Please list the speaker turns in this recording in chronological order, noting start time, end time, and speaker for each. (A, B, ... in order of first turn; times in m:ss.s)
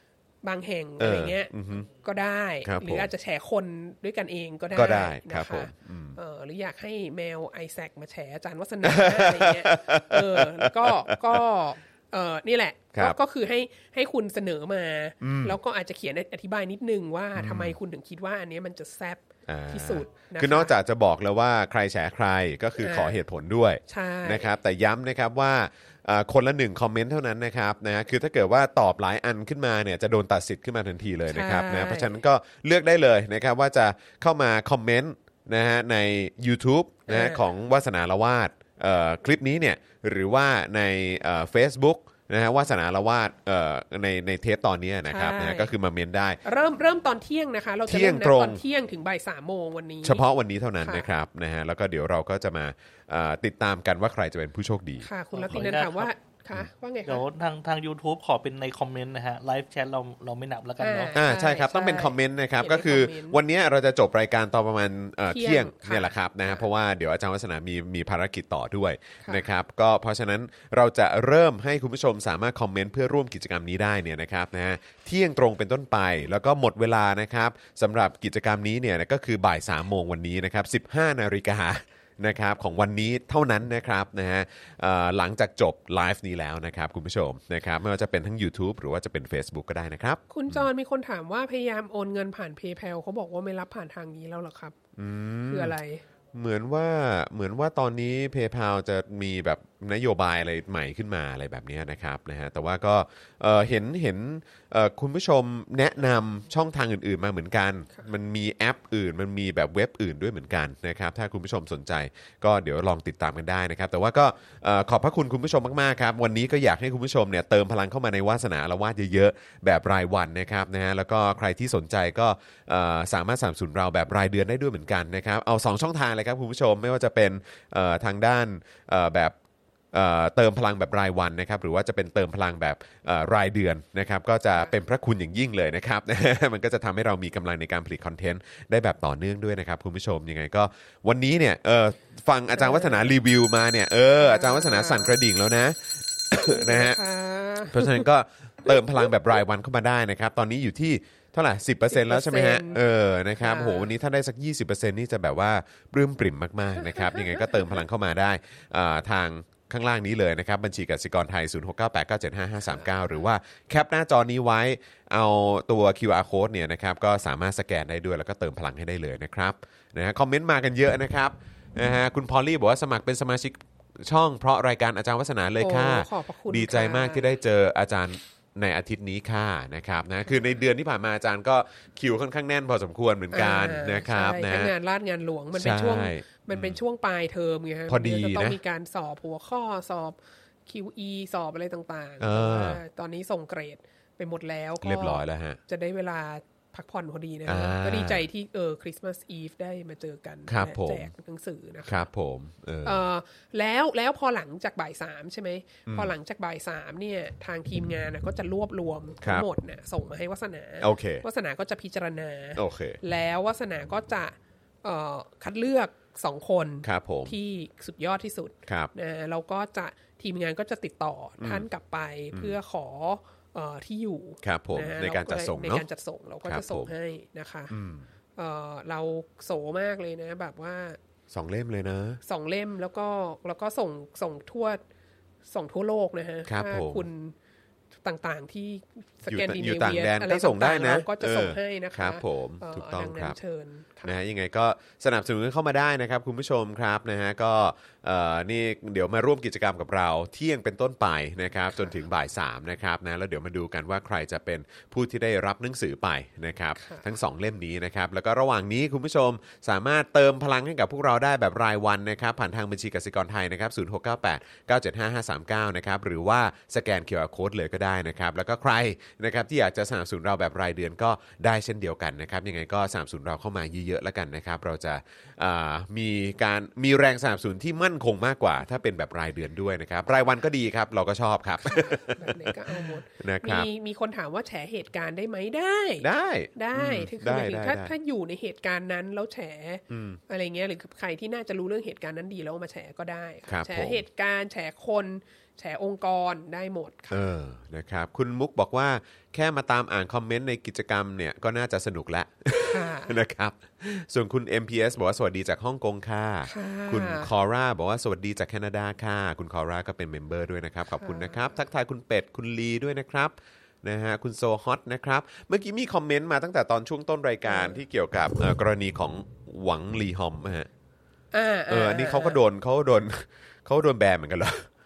0:00.4-0:20.8 A
0:01.0-0:01.9 B
0:02.6-0:03.1 B
0:04.7-0:06.2 B
0:08.8-0:11.4 B
0:15.2-0:15.6 B
0:17.4-0:17.8 B
0:19.5-0:46.4 B
0:22.8-0:23.2 A
0:23.9-0:24.5 A
0:31.3-0:32.2 A
0:37.1-0:37.4 A
0:45.0-0:45.7 A
0:46.4-0:50.2 A
0:47.9-0:48.6 B
0:50.0-0:55.7 B
0:50.8-0:51.1 A
0:55.0-0:57.3 A
0:55.3-0:56.1 C
0:57.1-1:01.2 C
1:00.8-1:03.4 A
1:01.2-1:30.6 B
1:05.3-1:06.7 A
1:30.3-1:34.8 A
1:35.0-1:35.8 B
1:35.5-1:36.0 A
1:36.3-2:09.4 B
2:09.9-2:27.0 B
2:22.6-2:23.1 A
2:24.2-2:25.2 A
2:26.4-2:28.1 A
2:27.7-3:04.7 B
2:31.9-2:32.8 A
2:33.4-2:33.9 A
2:36.8-2:37.8 A
2:42.7-2:43.2 A
2:55.6-2:57.4 A
3:03.3-3:22.1 A
3:05.5-3:06.8 B
3:07.9-3:08.6 B
3:12.2-3:12.8 B
3:14.8-3:15.6 B
3:17.5-3:18.2 B
3:20.5-3:21.1 B
3:21.9-3:23.0 B
3:22.8-3:47.8 A
3:25.9-3:26.1 B
3:29.2-3:29.5 B
3:30.8-3:31.2 B
3:32.6-3:33.0 B
3:36.8-3:37.4 B
3:38.7-3:38.9 B
3:41.4-3:41.7 B
3:44.4-3:45.9 B
3:46.5-3:46.9 B
3:47.7-3:48.1 B
3:48.4-3:51.0 A
3:51.3-3:52.2 B
3:52.2-3:54.8 A
3:55.5-3:57.4 A
3:56.5-3:57.1 B
3:58.0-4:04.2 A
3:59.3-4:03.4 B
4:04.0-4:43.7 B
4:16.8-4:17.1 A
4:41.6-4:57.2 A
4:46.0-4:47.9 B
4:49.9-4:50.2 B
4:53.5-4:54.0 B
4:57.1-5:20.7 B
5:02.7-5:03.2 A
5:06.5-5:07.3 A
5:11.0-5:11.4 A
5:17.5-5:17.8 A
5:21.3-5:22.4 A
5:21.7-5:24.7 B